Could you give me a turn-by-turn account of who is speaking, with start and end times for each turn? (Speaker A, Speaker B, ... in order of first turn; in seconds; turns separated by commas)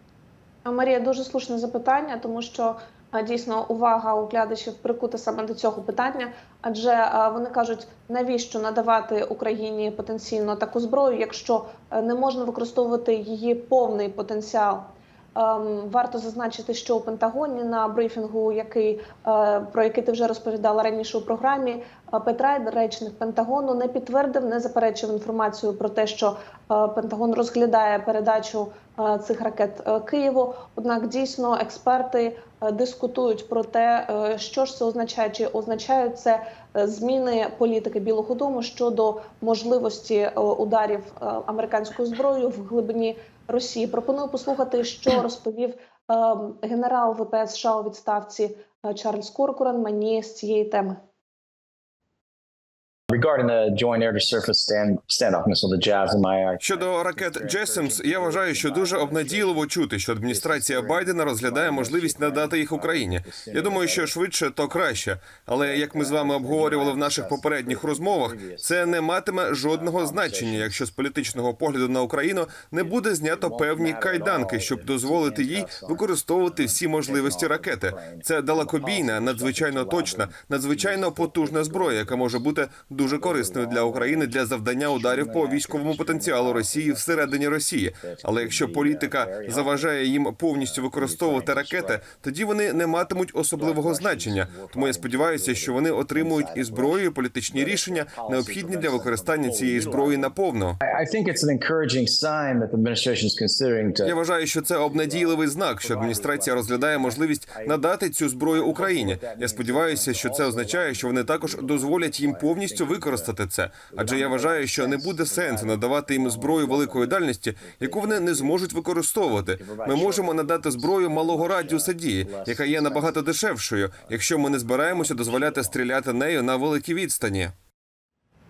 Speaker A: 0.6-51.0, Speaker B: 53.1-59.7, Speaker C: 56.6-100.7, Speaker B: 60.3-64.2, Speaker B: 64.7-65.0, Speaker B: 65.6-69.0, Speaker B: 69.6-70.8, Speaker B: 72.8-82.5, Speaker B: 83.0-87.4, Speaker B: 88.0-89.9, Speaker B: 90.6-92.1, Speaker B: 92.7-104.2, Speaker C: 104.0-127.5, Speaker B: 104.9-107.8, Speaker B: 108.4-113.3, Speaker B: 113.9-118.7, Speaker B: 119.2-123.2, Speaker B: 124.0-125.8